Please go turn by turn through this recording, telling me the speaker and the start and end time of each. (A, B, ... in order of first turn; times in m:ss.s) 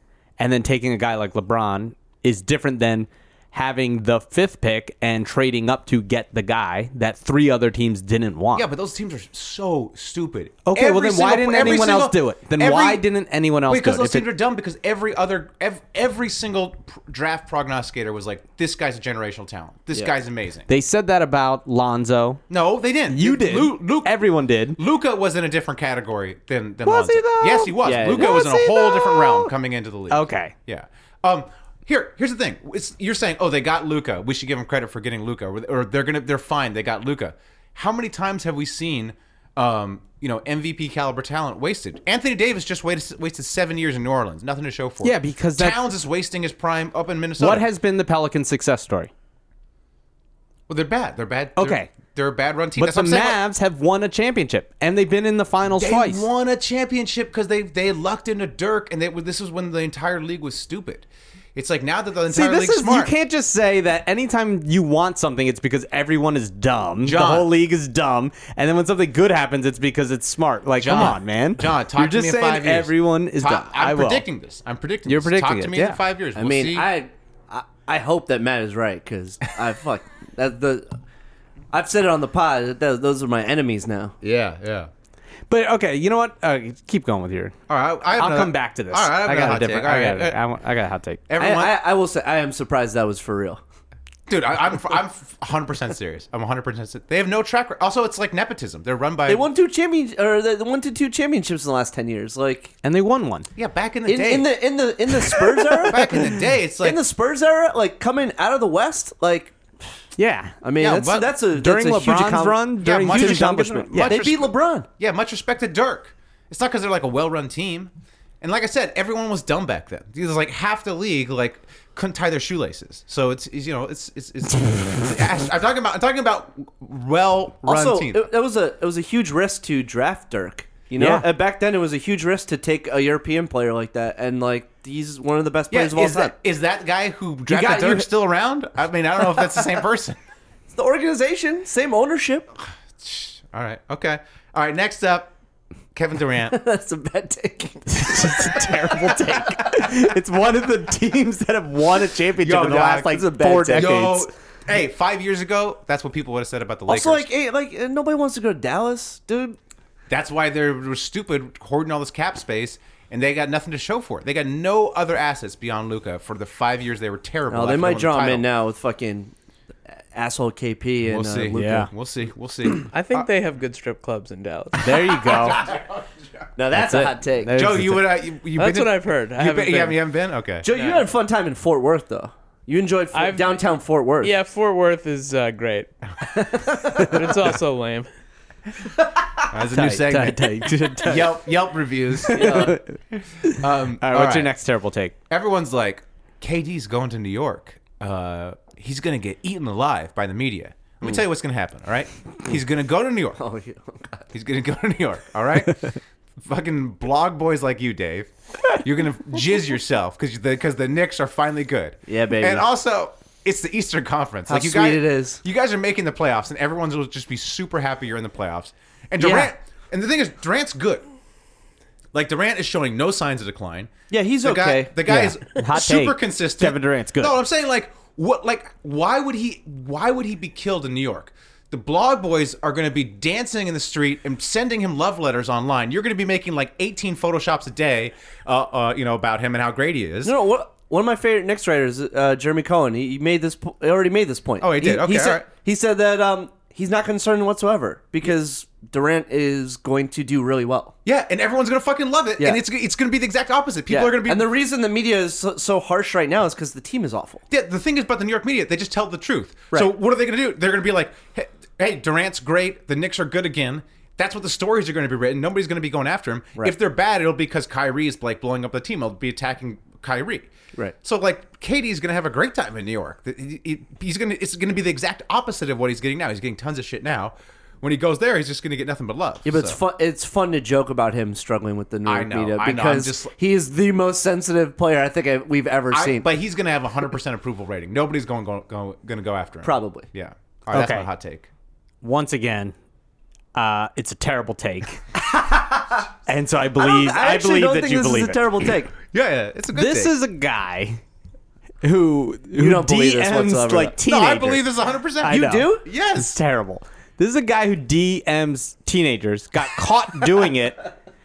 0:00.4-0:08.7 A
0:08.5-0:13.0 B
0:10.6-0:14.3 A
0:13.7-0:20.7 B
0:20.7-0:22.4 A
0:22.5-0:47.6 B
0:23.1-0:24.8 A
0:26.8-0:29.5 A
0:27.8-0:28.4 C
0:30.1-0:30.5 A
0:45.0-0:45.8 A
0:47.4-0:49.1 A
0:50.7-0:53.4 B
0:51.6-0:51.9 A
0:52.8-0:56.3 A
0:55.7-1:03.1 B
1:02.3-1:14.2 A
1:07.0-1:07.5 B
1:10.8-1:16.9 B
1:15.0-1:16.0 A
1:16.3-1:20.9 C
1:21.7-1:24.2 C
1:24.2-1:24.9 B
1:25.5-1:27.6 A
1:27.7-1:30.4 B
1:28.1-1:31.2 A
1:31.3-1:31.8 B
1:31.4-1:33.6 C
1:34.3-1:39.5 B
1:39.3-1:42.7 C
1:42.8-1:43.5 A
1:43.6-1:44.6 B
1:44.0-1:46.2 C
1:45.8-1:47.0 B
1:46.8-1:49.6 C
1:50.2-1:50.6 A
1:50.6-1:54.9 C
1:50.8-1:51.4 B
1:51.5-1:54.2 A
1:52.8-2:08.3 B
2:07.6-2:16.3 C
2:11.0-2:11.3 A
2:15.7-2:20.2 B
2:17.5-2:18.1 C
2:20.7-2:22.5 C
2:23.0-2:25.3 B
2:25.9-2:26.6 B
2:26.5-2:28.7 C
2:27.9-2:34.3 A
2:32.4-2:37.2 B
2:33.0-2:34.1 C
2:36.9-2:39.6 C
2:40.1-2:48.4 B
2:47.5-2:49.3 C
2:49.9-2:51.8 C
2:51.0-2:53.3 B
2:51.5-2:51.9 A
2:52.9-2:54.9 D
2:54.8-2:55.6 A
2:54.8-2:56.4 B
2:56.6-2:57.6 C
2:56.7-2:58.2 A
2:57.5-3:00.6 B
2:58.6-3:00.0 D
3:00.6-3:04.3 C
3:00.7-3:01.0 D
3:03.1-3:03.6 D
3:04.2-3:05.9 D
3:06.3-3:07.2 C
3:06.9-3:08.1 D
3:09.5-3:12.7 B
3:09.7-3:11.4 A
3:12.2-3:15.1 A
3:12.3-3:12.8 C
3:13.4-3:14.5 B
3:15.3-3:23.4 B
3:23.4-3:24.3 C
3:24.3-3:41.0 B
3:32.1-3:32.7 C
3:34.5-3:35.4 C
3:39.2-3:39.5 C
3:42.1-4:00.4 B
3:44.1-3:44.9 C
3:45.0-3:47.4 A
4:00.2-4:10.9 C
4:04.6-4:05.4 B
4:11.0-4:14.5 B
4:13.9-4:17.4 C
4:17.5-4:30.5 B
4:31.0-4:39.8 B
4:39.4-4:46.3 C
4:42.0-4:43.3 B
4:45.9-4:51.5 B
4:49.6-4:50.1 C
4:50.7-4:51.1 A
4:52.0-4:52.7 A
4:53.5-4:55.0 A
4:55.5-4:55.8 C
4:56.2-4:58.7 A
4:56.8-4:58.9 C
4:59.1-5:00.1 B
4:59.7-5:01.0 A
5:01.8-5:04.7 A
5:02.6-5:04.0 C
5:04.0-5:06.4 B
5:05.2-5:10.9 A
5:05.2-5:05.8 C